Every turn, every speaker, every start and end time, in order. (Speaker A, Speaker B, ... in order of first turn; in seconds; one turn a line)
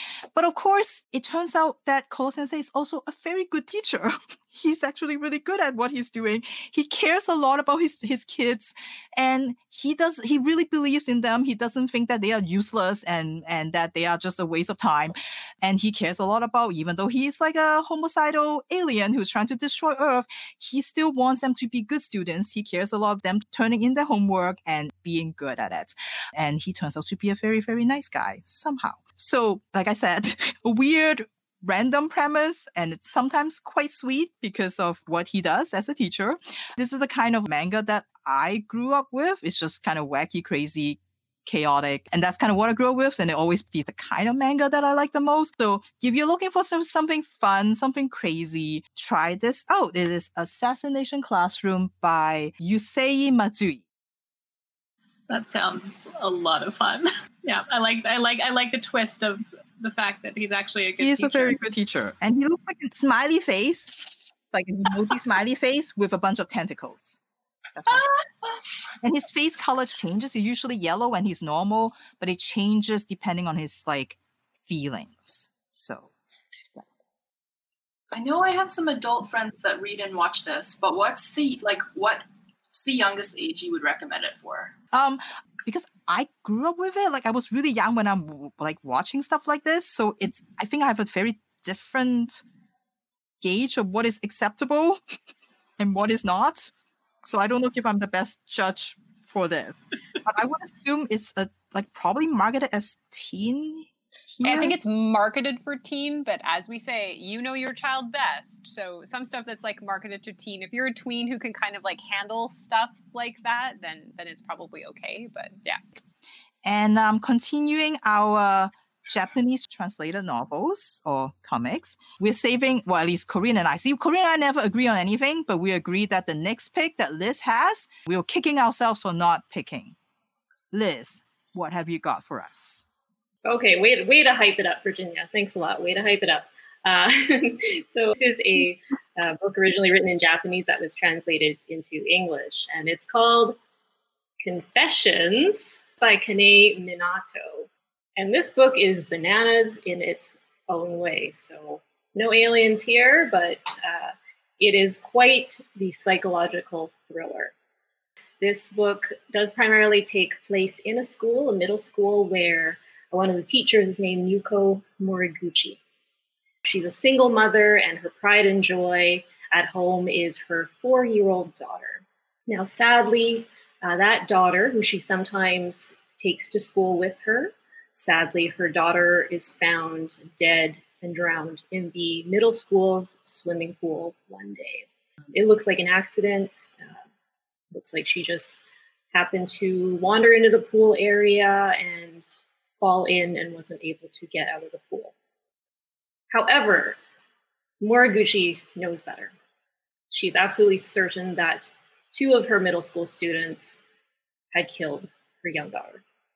Speaker A: 0.3-53.9
Speaker B: 55.3-61.6
Speaker A: 61.0-67.2
Speaker A: 67.7-68.1
Speaker A: 69.0-76.1
Speaker C: 78.1-84.8
Speaker A: 84.9-92.4
Speaker A: 93.4-95.0
Speaker A: 95.8-104.7
Speaker D: 104.4-115.8
Speaker A: 116.6-130.0
Speaker A: 130.7-132.9
Speaker E: 133.4-143.6
Speaker E: 144.4-157.5
Speaker E: 158.4-165.8
Speaker E: 166.7-187.0
Speaker E: 187.7-188.6
Speaker E: 189.1-195.2
Speaker E: 196.3-197.0
Speaker E: 197.8-199.3
Speaker E: 200.1-203.8
Speaker E: 204.5-206.0